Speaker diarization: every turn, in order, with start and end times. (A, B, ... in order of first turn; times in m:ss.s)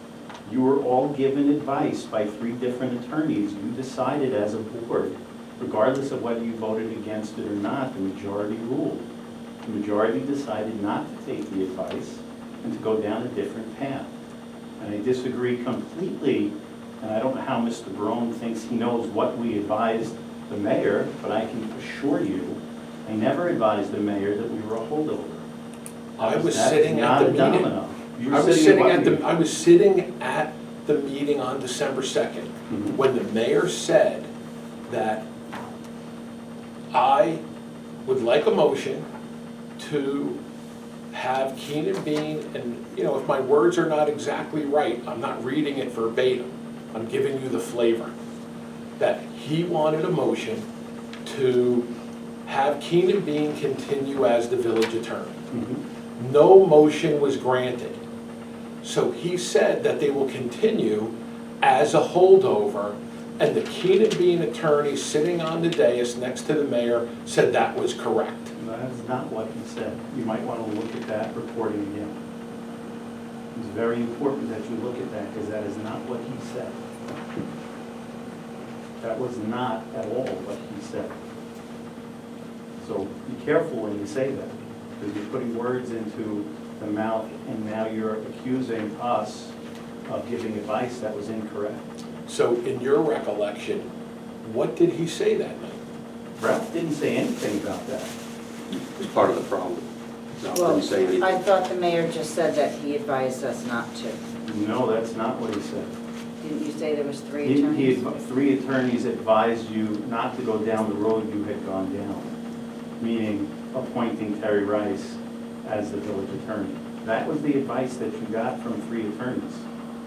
0:00.4-0:09.0 A
0:09.6-0:14.1 A
0:14.8-0:25.4 A
0:26.2-0:27.7 B
0:26.2-0:29.2 A
0:28.3-0:34.3 B
0:32.7-0:33.0 A
0:34.9-0:35.2 B
0:36.9-0:37.4 B
0:38.0-0:39.0 B
0:39.8-0:40.4 B
0:41.1-0:48.1 B
0:49.0-0:50.6 B
0:51.2-0:51.9 B
0:52.4-0:55.4 B
0:55.5-0:55.8 A
0:56.2-0:58.0 B
0:58.8-1:08.5 B
1:08.6-1:12.2 A
1:13.5-1:16.8 A
1:19.0-1:21.2 A
1:22.8-1:29.5 A
1:30.1-1:31.8 A
1:32.2-1:33.9 B
1:34.4-1:35.8 B
1:36.4-1:38.1 A
1:39.0-1:39.8 C
1:40.4-1:41.4 C
1:40.5-1:44.2 D
1:44.4-1:45.9 A
1:46.4-1:48.2 D
1:47.4-1:52.3 A
1:53.0-1:59.6 A